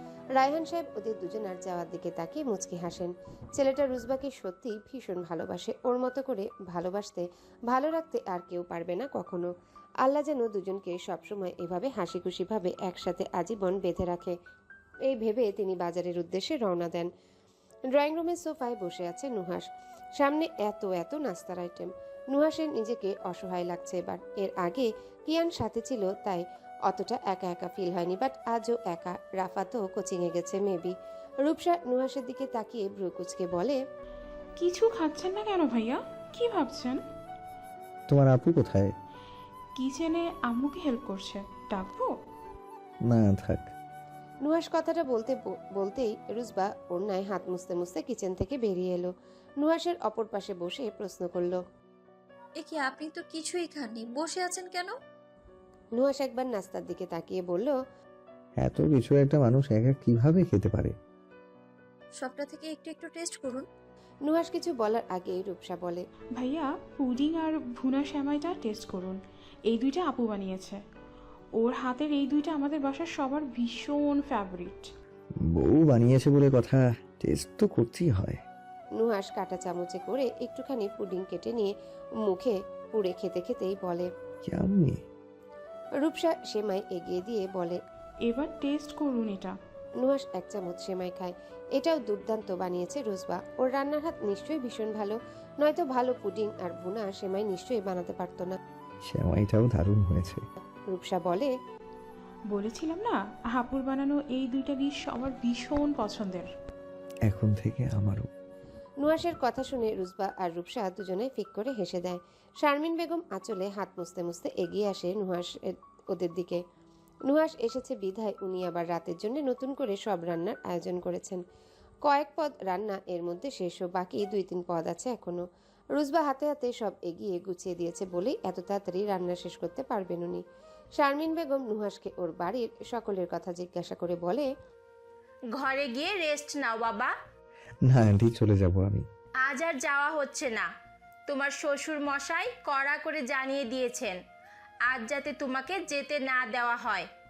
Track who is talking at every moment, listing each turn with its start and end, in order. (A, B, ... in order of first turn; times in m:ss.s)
0:00.4-0:09.5 A
0:10.0-0:14.4 A
0:15.1-0:17.1 A
0:17.9-0:33.8 A
0:34.6-0:37.0 B
0:38.1-0:38.9 C
0:39.8-0:42.1 B
0:43.1-0:43.7 C
0:44.4-0:51.6 A
0:52.6-0:54.9 D
0:56.0-0:57.8 A
0:58.6-1:00.9 C
1:02.2-1:03.6 D
1:04.3-1:06.0 A
1:06.4-1:09.2 B
1:09.7-1:10.8 B
1:11.6-1:14.9 B
1:15.4-1:18.4 C
1:19.0-1:24.1 A
1:24.4-1:25.0 C
1:26.0-1:27.8 A
1:28.3-1:29.6 B
1:30.0-1:38.6 A
1:39.1-1:40.4 C
1:40.9-1:41.5 A
1:42.5-1:46.5 B
1:47.3-1:48.3 C
1:49.0-1:56.6 A
1:57.3-2:01.4 A
2:02.0-2:10.4 A
2:11.0-2:14.5 A
2:15.6-2:17.1 E
2:17.9-2:19.0 C
2:19.4-2:20.7 E
2:21.3-2:24.2 E
2:24.9-2:27.1 E